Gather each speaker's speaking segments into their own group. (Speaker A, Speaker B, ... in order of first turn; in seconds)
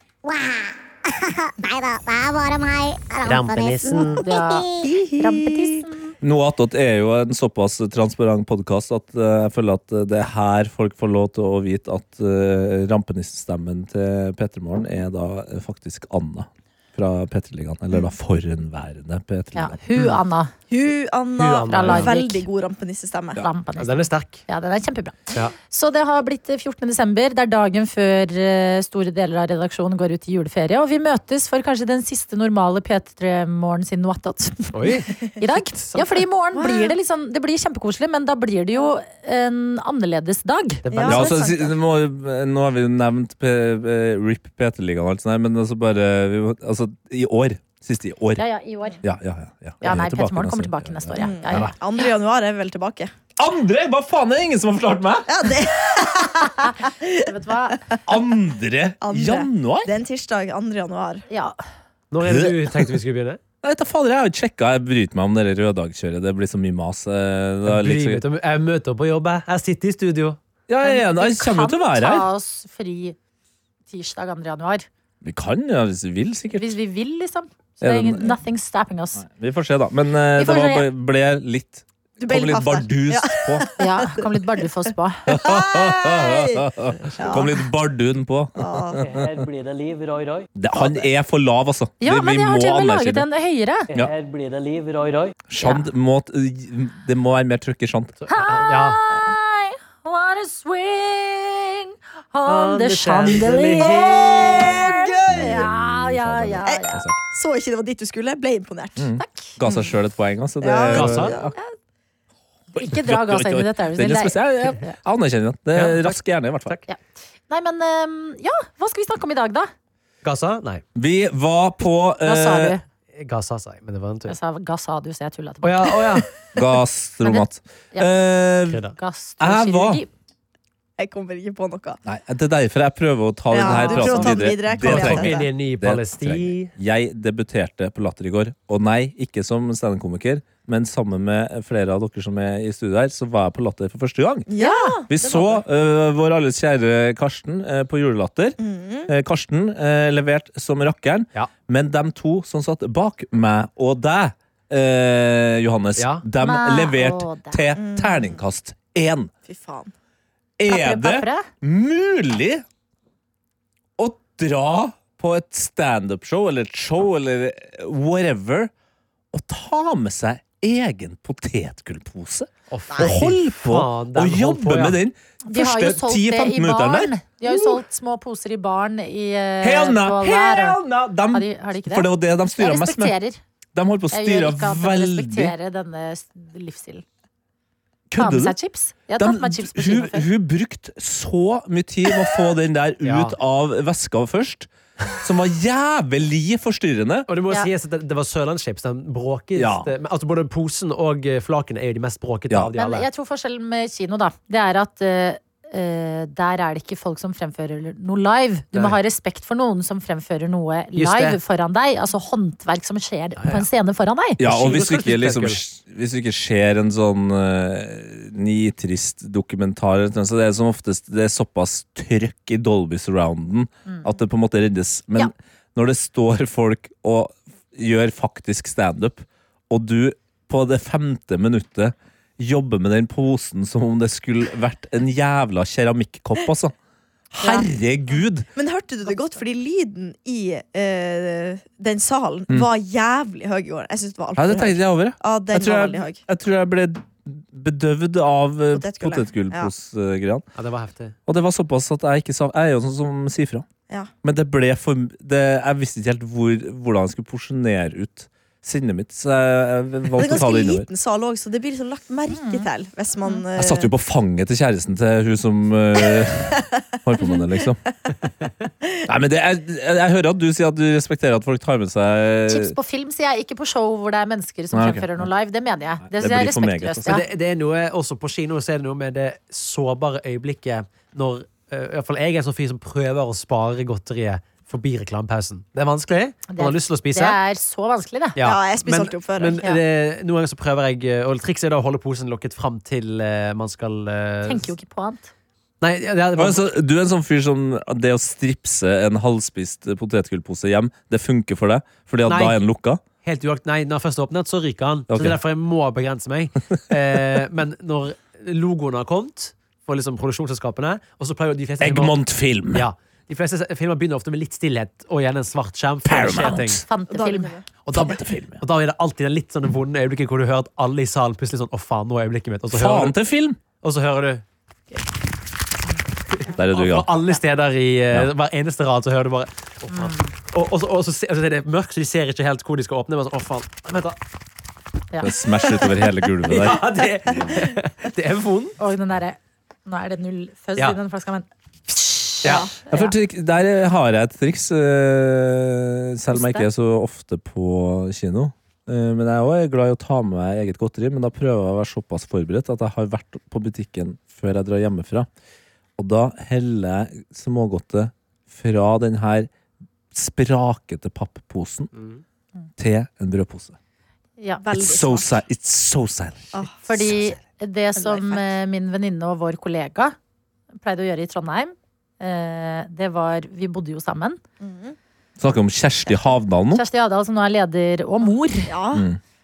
Speaker A: 0.2-4.9
Speaker B: 3.2-4.2, 21.4-22.1, 23.8-24.4, 34.7-35.2, 40.9-41.3, 62.1-63.4, 67.7-70.4, 89.4-89.7, 94.8-95.3, 98.2-99.0, 102.5-104.1, 110.9-111.3, 115.7-116.8, 120.2-120.8, 123.2-124.4, 125.6-126.3, 128.7-128.9, 134.7-136.7, 156.0-156.2, 172.7-175.0, 193.0-193.4, 197.3-203.1, 211.0-211.4, 213.4-213.7, 214.4-215.6, 250.6-251.2, 277.1-287.4, 288.4-294.7, 295.8-296.6, 302.3-302.6, 303.2-312.2, 312.7-316.8, 317.9-323.2, 323.8-324.4, 326.3-334.2, 335.8-338.8, 342.4-342.7, 361.9-362.2
Speaker C: 4.0-6.1, 19.6-20.5, 21.7-22.5, 23.4-41.7, 48.4-49.0, 49.8-51.8, 56.6-57.8, 61.3-61.6, 70.8-73.2, 73.9-74.9, 76.5-79.2, 80.4-80.9, 83.8-85.3, 92.0-93.9, 95.6-95.9, 98.3-107.0, 109.2-109.6, 112.7-115.0, 117.5-119.7, 122.2-122.8, 124.3-126.2, 127.2-128.1, 128.9-130.1, 133.6-134.4, 144.6-145.0, 156.4-157.7, 160.7-161.5, 175.4-180.8, 181.3-183.4, 184.1-187.1, 188.2-190.3, 202.8-214.4, 237.4-237.7, 262.3-262.7, 272.5-277.2, 286.5-288.4, 294.4-295.3, 316.9-317.6, 329.9-330.3, 338.8-343.1, 346.3-346.7, 364.4-364.6, 366.8-370.2, 370.8-374.4, 376.7-378.7
Speaker D: 4.8-5.8, 20.7-23.4, 36.5-36.9, 40.9-41.5, 51.2-53.1, 55.3-57.8, 59.0-61.2, 82.2-84.3, 85.3-87.7, 88.6-89.2, 103.8-105.7, 106.7-109.1, 109.6-109.9, 110.6-111.5, 131.0-132.0, 133.5-135.5, 144.5-145.6, 148.6-149.1, 157.8-158.4, 159.5-159.9, 238.6-246.2, 248.7-249.7, 260.1-263.9, 288.4-289.6, 317.1-317.7, 342.4-342.7, 364.6-365.4, 368.0-368.5, 374.6-375.0, 378.7-379.1
Speaker E: 6.2-19.8, 41.0-48.4, 49.0-51.7, 53.4-55.7, 58.1-59.9, 62.2-62.9, 63.6-68.2, 70.7-72.3, 75.2-76.7, 77.8-78.4, 79.2-83.7, 85.3-89.5, 90.5-93.3, 95.5-98.1, 104.4-107.2, 109.0-111.5, 112.8-116.8, 121.0-122.8, 126.5-128.8, 129.4-130.0, 132.1-144.5, 145.1-159.3, 160.6-162.7, 164.0-168.7, 169.3-177.8, 179.6-183.2, 183.8-185.5, 188.1-188.6, 189.2-197.3, 199.6-199.9, 214.4-236.7, 237.3-238.5, 244.4-250.4, 251.3-253.7, 254.2-260.9, 263.6-267.8, 269.1-272.8, 274.7-275.3, 276.1-277.2, 296.4-303.0, 305.1-305.4, 311.8-312.9, 316.1-316.8, 317.9-318.6, 322.7-323.6, 326.5-327.1, 335.2-337.6, 342.9-355.3, 356.0-359.5, 360.1-361.9, 362.8-363.8, 364.7-367.1, 375.4-376.8, 378.9-379.2